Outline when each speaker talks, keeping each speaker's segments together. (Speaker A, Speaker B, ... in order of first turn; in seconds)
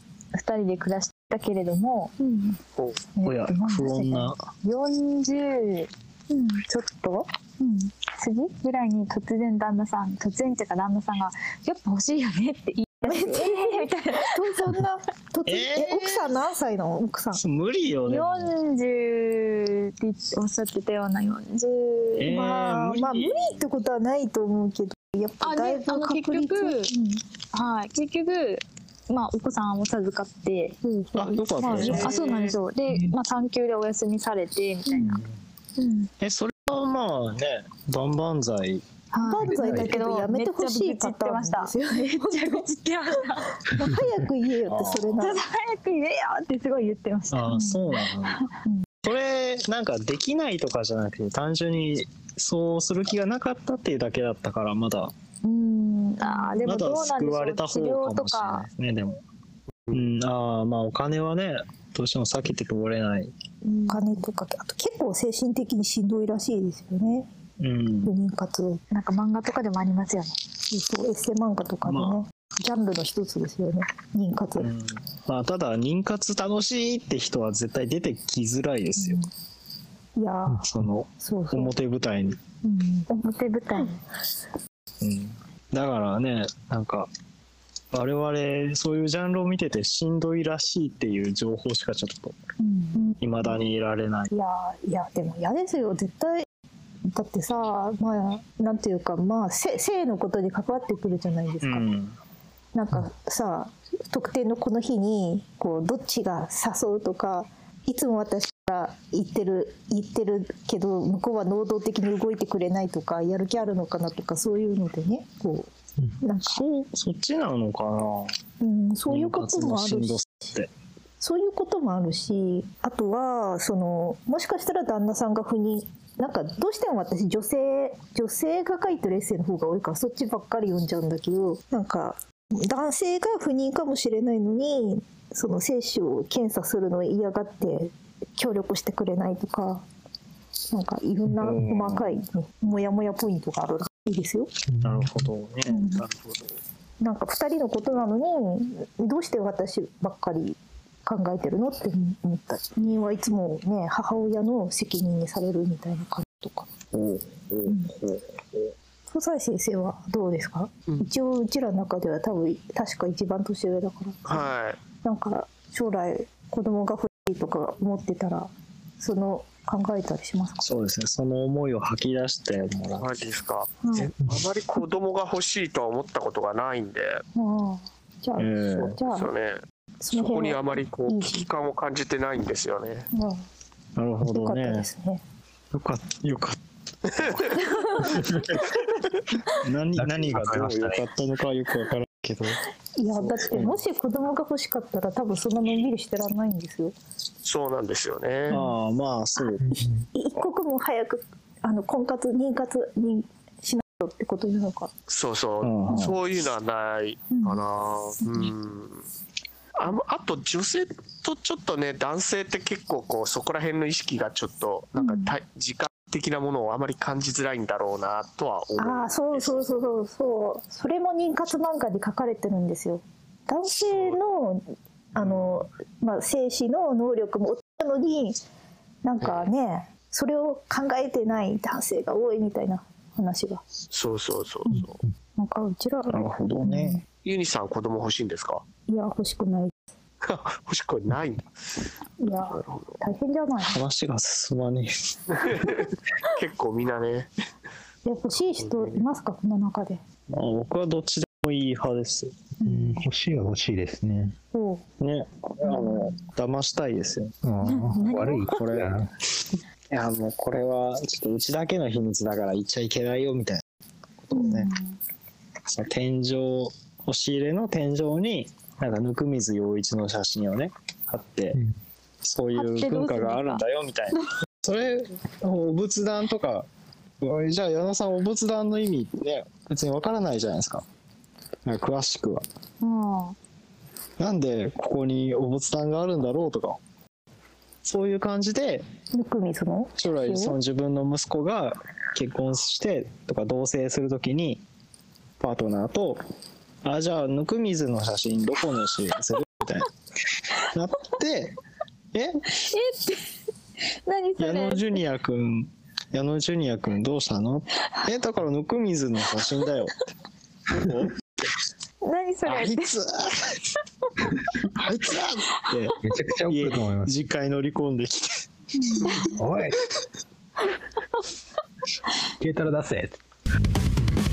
Speaker A: 0.3-2.1, 4.6-5.9, 8.0-14.6, 18.1-22.3, 25.4-26.9, 27.5-30.8, 31.7-35.2, 39.1-43.7, 45.2-48.5, 55.5-58.6, 63.6-64.0, 68.9-70.4, 83.1-84.0, 257.6-258.7, 272.5-273.6, 282.8-283.4, 302.6-303.3, 304.1-305.0, 312.0-312.9, 318.8-319.4
Speaker B: 2.2-2.6, 3.1-4.3, 6.3-7.9, 13.0-17.4, 22.2-27.2, 30.8-32.2, 34.9-35.2, 35.8-36.1, 39.2-42.7, 43.7-45.4, 47.5-47.8, 56.2-56.8, 63.9-67.3, 68.0-68.8, 70.7-74.7, 79.0-79.3, 80.2-80.6, 81.2-81.7, 82.6-83.1, 92.6-93.6, 94.3-96.5, 97.0-101.9, 102.7-116.6, 118.6-120.2, 121.2-139.8, 140.7-144.5, 145.7-146.1, 147.0-156.7, 157.7-157.9, 159.1-164.5, 165.0-170.6, 173.8-174.1, 177.3-179.3, 180.0-181.4, 183.1-183.4, 184.2-185.2, 187.6-188.6, 193.0-196.9, 199.7-204.9, 207.3-207.6, 215.0-215.3, 218.8-228.4, 229.0-233.6, 235.4-237.0, 238.9-239.8, 242.2-243.8, 248.0-250.0, 252.6-253.0, 254.5-254.8, 255.6-256.3, 264.3-264.6, 289.1-290.6
Speaker C: 3.2-4.5, 15.4-16.3, 17.3-18.5, 22.2-23.6, 31.1-32.4, 36.2-38.9, 44.6-45.3, 47.3-48.5, 49.0-55.1, 56.6-59.2, 59.9-63.3, 67.6-68.1, 71.8-72.2, 74.6-79.2, 80.6-82.4, 85.0-87.1, 87.9-92.3, 93.2-94.3, 101.6-102.2, 116.4-118.3, 119.1-120.7, 141.4-142.2, 144.8-146.5, 156.9-158.2, 170.6-173.3, 178.4-179.0, 183.9-184.9, 185.7-187.7, 188.2-188.8, 189.5-192.6, 193.4-193.8, 198.5-199.6, 205.6-206.2, 236.1-237.0, 243.6-245.7, 250.3-252.4, 255.0-257.3, 258.5-259.1, 259.9-263.6, 264.2-264.7, 265.6-271.6, 272.2-276.7, 277.2-280.8, 281.6-282.4, 284.2-286.8, 287.8-288.9, 290.0-294.6, 295.4-296.2, 296.8-299.9, 300.6-301.6, 302.1-302.6, 304.4-309.9, 310.7-311.1, 312.4-313.6, 314.6-318.4
Speaker D: 32.9-33.1, 39.4-40.0, 80.5-80.9, 144.7-145.3, 188.1-188.4, 189.9-191.0, 199.6-200.1, 252.6-254.4, 257.4-259.1, 316.0-317.2, 319.3-319.9, 322.4-323.2
Speaker E: 164.3-164.8, 173.0-177.2, 178.9-179.6, 180.1-183.1, 187.1-187.6, 190.4-190.9, 197.4-198.6, 205.1-209.0, 209.8-219.9, 223.7-224.2, 233.9-235.0, 237.2-238.6, 240.2-241.8, 242.5-243.0, 245.3-247.3, 248.6-249.0